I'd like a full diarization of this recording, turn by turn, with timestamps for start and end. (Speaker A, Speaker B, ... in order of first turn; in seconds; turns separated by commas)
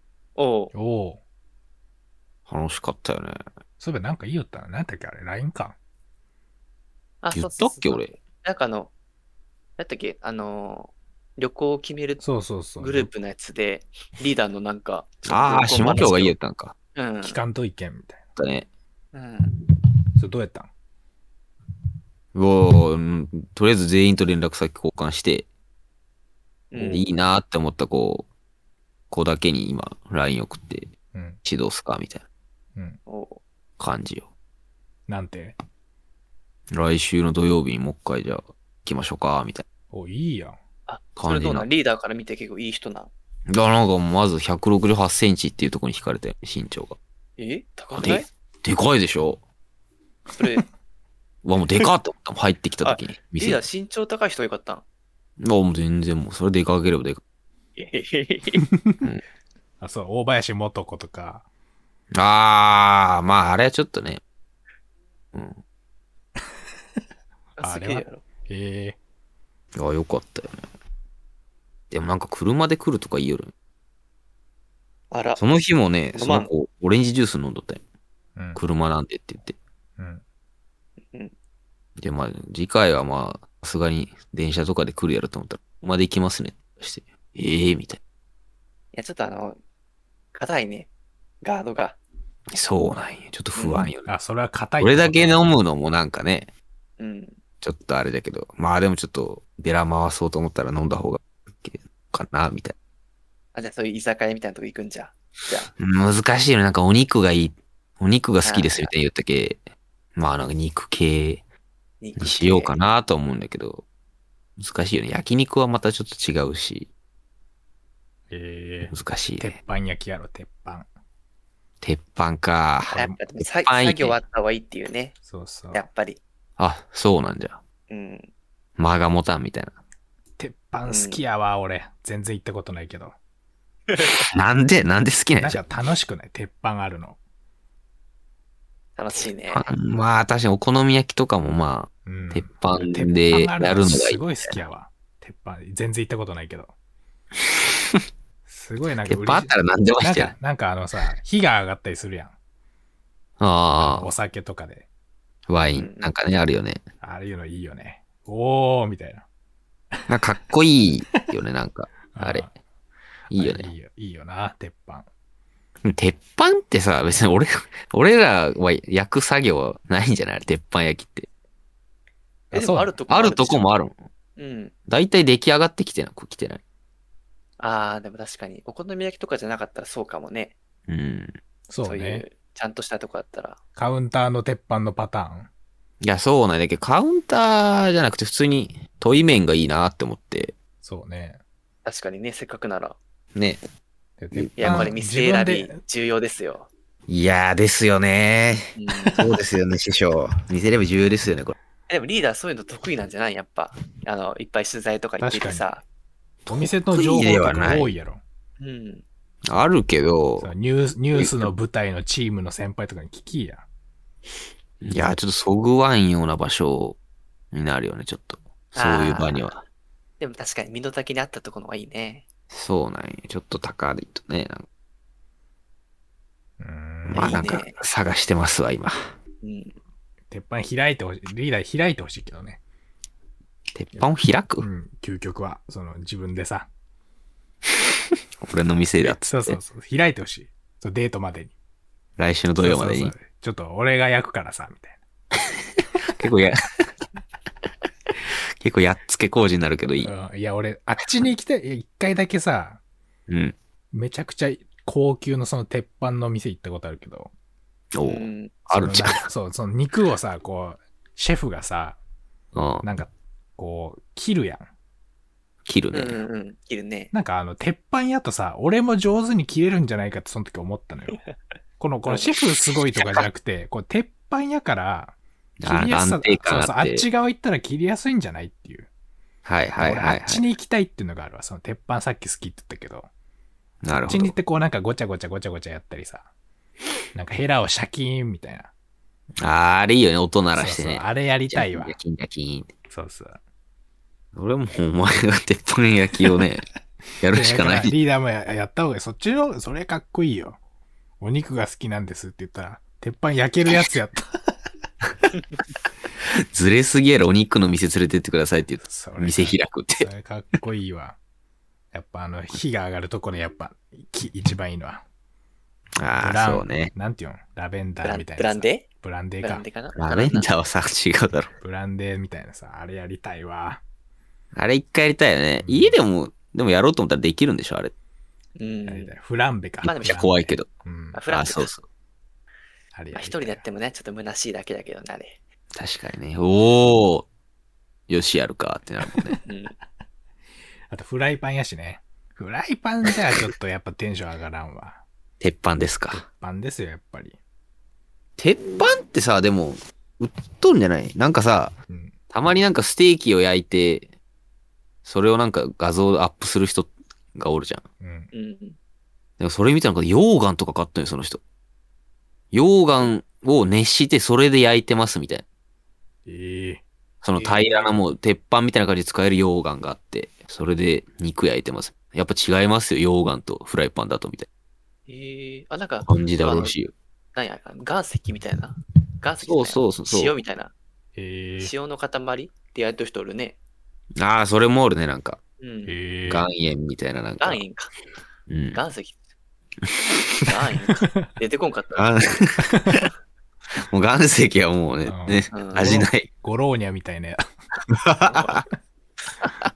Speaker A: 0.4-0.7, Speaker B: 0.7-1.2, Speaker C: 2.5-3.4, Speaker B: 3.8-5.8, Speaker A: 7.2-8.9, Speaker C: 7.3-8.2, Speaker A: 9.8-12.2, Speaker B: 12.2-13.1, Speaker A: 12.8-16.4, Speaker C: 15.3-16.7, Speaker A: 17.0-17.4, Speaker B: 17.2-18.2, Speaker C: 18.4-18.7, Speaker A: 19.1-19.5, Speaker B: 20.2-20.7, Speaker C: 22.3-25.5, Speaker A: 26.7-27.1, Speaker C: 26.8-28.3, Speaker C: 29.1-30.9, Speaker B: 31.1-31.4, Speaker C: 31.4-32.2, Speaker A: 33.1-33.4, Speaker C: 33.8-34.3, Speaker B: 35.1-35.6, Speaker C: 36.7-39.7, Speaker B: 39.9-40.6, Speaker A: 40.9-43.1, Speaker C: 41.2-41.7, Speaker C: 43.5-47.0, Speaker A: 47.4-48.3, Speaker C: 48.0-49.4, Speaker A: 50.4-50.7, Speaker C: 51.4-53.6, Speaker A: 52.8-54.8, Speaker C: 55.4-57.2, Speaker A: 57.8-58.6, Speaker B: 58.6-59.0, Speaker B: 59.8-61.5, Speaker C: 62.1-64.2, Speaker C: 65.3-65.6, Speaker A: 67.6-68.2, Speaker B: 67.6-69.0, Speaker C: 69.8-70.7, Speaker C: 71.9-73.5, Speaker A: 75.1-75.4, Speaker C: 75.4-77.8, Speaker A: 76.1-76.5, Speaker C: 78.5-79.6, Speaker B: 80.0-80.2, Speaker C: 82.0-88.0, Speaker A: 88.9-89.6, Speaker A: 90.3-90.9, Speaker A: 91.4-92.0, Speaker C: 92.5-94.1, Speaker A: 93.6-93.9, Speaker B: 94.1-95.5, Speaker C: 94.8-96.5, Speaker A: 97.0-97.4, Speaker C: 97.6-102.8, Speaker A: 103.5-105.7, Speaker C: 105.8-109.6, Speaker A: 108.4-108.9, Speaker C: 110.2-111.4, Speaker A: 112.0-112.8, Speaker C: 112.2-113.8, Speaker C: 114.6-116.9, Speaker B: 118.3-120.9, Speaker C: 118.9-119.5, Speaker C: 121.8-124.2, Speaker A: 122.8-125.2, Speaker B: 125.3-125.8, Speaker A: 125.7-126.2, Speaker C: 126.6-127.6, Speaker A: 127.9-128.3, Speaker C: 128.8-129.8, Speaker B: 130.4-133.2, Speaker A: 130.9-131.2, Speaker A: 133.9-134.3, Speaker C: 134.0-135.6, Speaker B: 135.4-137.2, Speaker A: 139.0-139.7, Speaker C: 139.2-144.6, Speaker B: 142.1-146.7, Speaker B: 148.5-152.3, Speaker C: 149.0-150.3, Speaker C: 153.4-154.1, Speaker B: 153.8-154.9, Speaker C: 155.5-156.8, Speaker A: 155.8-156.2, Speaker B: 157.0-159.3, Speaker C: 160.1-162.5, Speaker B: 162.1-162.5, Speaker C: 163.3-163.7, Speaker B: 163.4-165.1, Speaker C: 165.8-171.3, Speaker A: 172.5-173.7, Speaker B: 172.5-172.9, Speaker C: 173.1-174.1, Speaker A: 174.4-174.7, Speaker C: 174.9-176.6, Speaker A: 177.6-180.6, Speaker C: 180.9-181.3, Speaker B: 181.7-182.2, Speaker A: 181.8-183.6, Speaker B: 183.8-185.5, Speaker C: 186.0-190.5, Speaker B: 190.8-191.4, Speaker A: 191.8-193.0, Speaker C: 193.3-193.6, Speaker B: 194.2-195.8, Speaker C: 194.3-194.9, Speaker A: 194.6-196.7, Speaker C: 197.1-198.6, Speaker A: 198.8-199.2, Speaker C: 199.2-201.6, Speaker A: 201.9-205.8, Speaker B: 205.2-205.7, Speaker C: 206.5-207.9, Speaker B: 206.5-208.2, Speaker A: 208.6-209.0, Speaker C: 209.5-210.5, Speaker B: 210.4-213.7, Speaker C: 211.1-211.5, Speaker C: 214.8-217.0, Speaker C: 217.5-219.6, Speaker A: 218.8-219.5, Speaker A: 220.2-222.2, Speaker C: 222.5-224.7, Speaker B: 226.6-227.4, Speaker C: 227.1-228.9, Speaker A: 227.2-227.8, Speaker A: 229.4-229.8, Speaker B: 230.3-232.6, Speaker C: 233.8-234.7, Speaker B: 234.6-236.7, Speaker C: 238.4-239.6, Speaker B: 239.0-241.5, Speaker C: 242.2-243.1, Speaker B: 242.6-245.0, Speaker C: 246.2-246.6, Speaker C: 248.6-250.1, Speaker B: 250.0-252.8, Speaker C: 253.3-253.6, Speaker B: 253.9-257.3, Speaker C: 257.9-259.3, Speaker A: 258.0-258.5, Speaker B: 258.8-262.0, Speaker C: 262.5-262.9, Speaker B: 262.8-264.7, Speaker C: 265.6-266.2, Speaker A: 265.9-267.1, Speaker B: 267.1-271.2, Speaker B: 271.8-278.9, Speaker A: 272.1-272.3, Speaker C: 275.6-277.1, Speaker C: 279.5-280.5, Speaker B: 279.8-283.1, Speaker C: 283.8-284.4, Speaker B: 284.1-286.3, Speaker B: 287.1-288.7, Speaker C: 289.4-292.7, Speaker B: 290.5-292.0, Speaker B: 292.9-293.4, Speaker C: 294.4-296.6, Speaker C: 297.2-298.0, Speaker B: 297.3-300.6, Speaker B: 301.2-304.2, Speaker C: 306.5-310.1, Speaker B: 308.8-311.2, Speaker B: 311.9-315.0, Speaker C: 316.0-316.9, Speaker B: 316.2-319.6, Speaker A: 318.0-318.9, Speaker A: 319.4-320.5, Speaker C: 319.9-321.5, Speaker B: 321.6-323.8, Speaker C: 324.5-327.9, Speaker B: 325.6-326.0, Speaker A: 328.6-329.1, Speaker B: 328.9-331.2, Speaker A: 329.8-330.2, Speaker C: 329.9-330.7, Speaker A: 331.1-331.7, Speaker C: 331.3-331.8, Speaker B: 332.9-333.6, Speaker A: 333.1-335.4, Speaker C: 335.8-337.3, Speaker C: 338.1-339.4, Speaker B: 339.2-339.4, Speaker A: 339.5-339.8, Speaker B: 340.9-345.0, Speaker C: 345.4-346.2, Speaker B: 346.1-347.4, Speaker C: 348.4-351.7, Speaker B: 351.9-352.1, Speaker C: 352.3-354.1, Speaker C: 355.1-357.8, Speaker B: 358.0-358.3, Speaker A: 358.3-358.8, Speaker C: 359.4-361.4, Speaker C: 362.5-365.4, Speaker B: 366.3-366.8, Speaker C: 367.2-374.5, Speaker A: 367.4-368.0, Speaker A: 375.1-376.8, Speaker C: 376.0-376.9, Speaker A: 377.4-380.7, Speaker C: 379.4-380.4, Speaker B: 381.2-381.7, Speaker A: 381.6-383.6, Speaker C: 384.2-385.4, Speaker A: 385.6-385.9, Speaker B: 385.9-386.5, Speaker C: 386.3-387.6, Speaker A: 387.4-387.9, Speaker C: 388.5-388.8, Speaker A: 388.7-389.2, Speaker A: 390.4-392.1, Speaker C: 391.9-393.0, Speaker C: 393.9-396.3, Speaker B: 395.1-397.4, Speaker A: 395.5-395.9, Speaker C: 398.0-398.6, Speaker A: 398.2-398.6